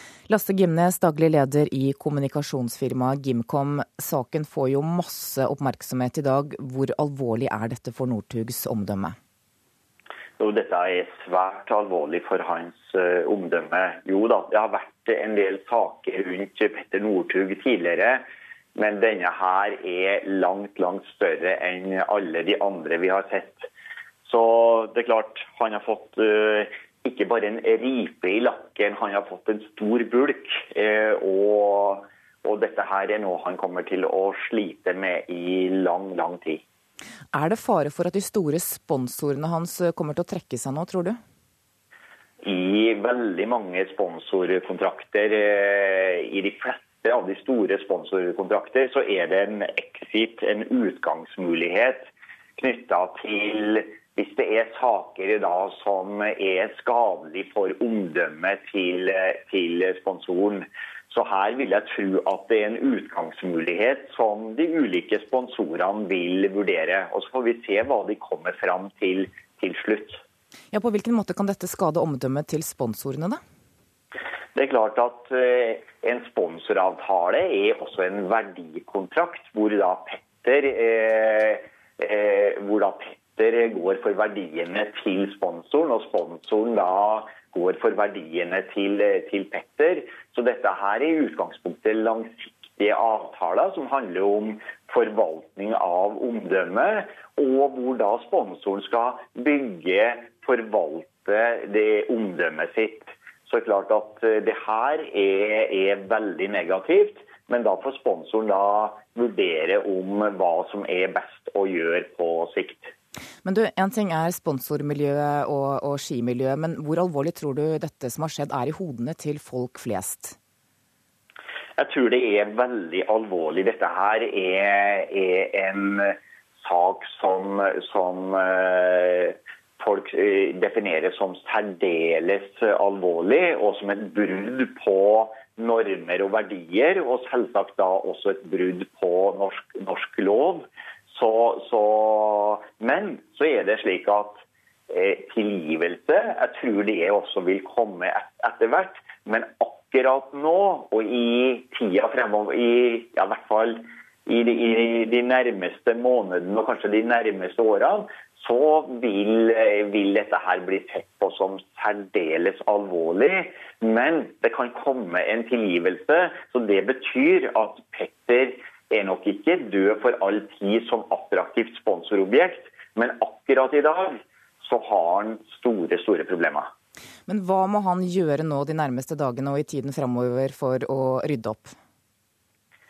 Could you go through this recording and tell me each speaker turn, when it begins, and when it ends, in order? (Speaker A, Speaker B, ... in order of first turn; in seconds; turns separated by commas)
Speaker A: 0.3-9.2, Speaker B: 10.4-18.2, Speaker B: 18.8-23.7, Speaker B: 24.2-36.6, Speaker A: 37.3-41.2, Speaker B: 42.4-70.2, Speaker A: 70.7-73.4, Speaker B: 74.5-112.9, Speaker A: 113.5-120.4, Speaker B: 121.8-176.7, Speaker A: 177.3-181.8